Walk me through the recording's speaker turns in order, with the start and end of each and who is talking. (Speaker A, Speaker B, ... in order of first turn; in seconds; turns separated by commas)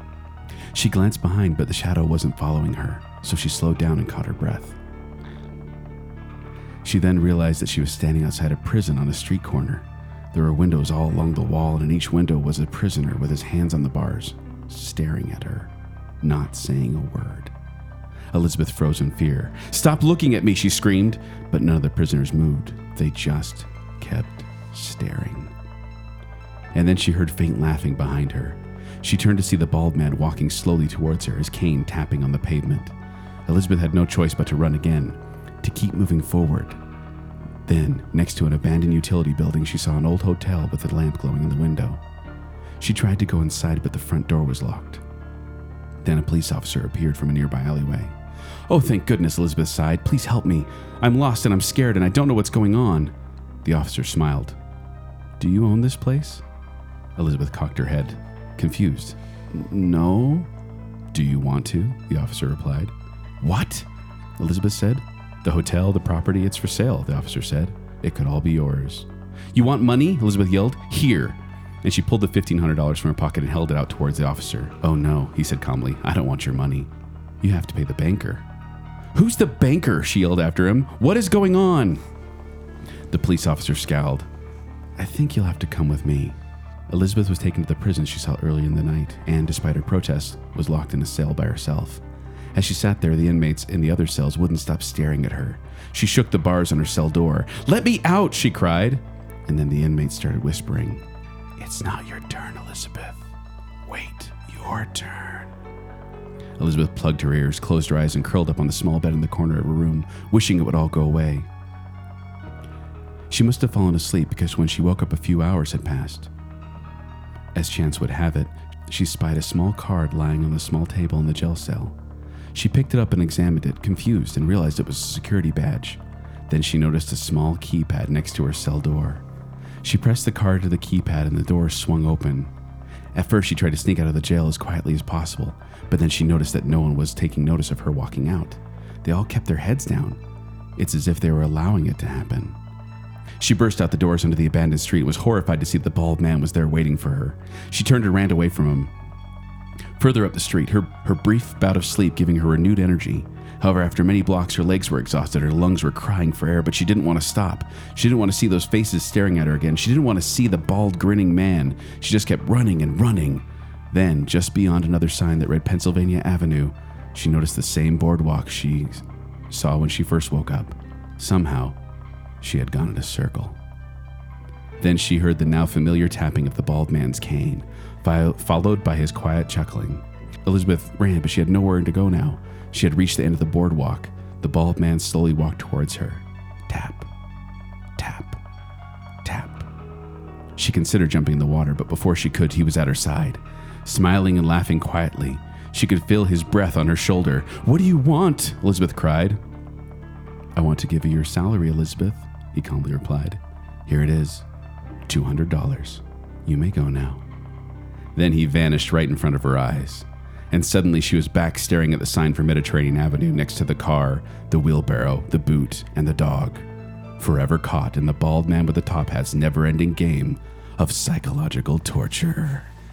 Speaker A: 0.7-4.8, Speaker A: 6.8-17.5, Speaker A: 18.3-25.5, Speaker A: 26.7-32.9, Speaker A: 33.5-36.8, Speaker A: 37.7-42.0, Speaker A: 42.8-45.0, Speaker A: 46.0-48.1, Speaker A: 48.7-53.1, Speaker A: 53.6-54.6, Speaker A: 55.4-56.4, Speaker A: 57.2-60.5, Speaker A: 61.1-63.9, Speaker A: 64.4-76.9, Speaker A: 77.4-78.4, Speaker A: 79.1-82.0, Speaker A: 83.1-84.3, Speaker A: 85.0-86.4, Speaker A: 86.9-92.0, Speaker A: 92.5-101.0, Speaker A: 101.6-103.2, Speaker A: 103.9-105.5, Speaker A: 106.6-111.5, Speaker A: 113.3-116.3, Speaker A: 117.5-122.0, Speaker A: 122.5-129.2, Speaker A: 129.8-132.5, Speaker A: 133.1-140.2, Speaker A: 140.8-142.6, Speaker A: 143.4-148.9, Speaker A: 150.0-171.8, Speaker A: 172.4-173.6, Speaker A: 174.8-187.1, Speaker A: 188.0-188.4, Speaker A: 189.2-189.7, Speaker A: 190.6-199.4, Speaker A: 200.6-204.4, Speaker A: 205.1-207.2, Speaker A: 208.2-216.7, Speaker A: 217.2-222.7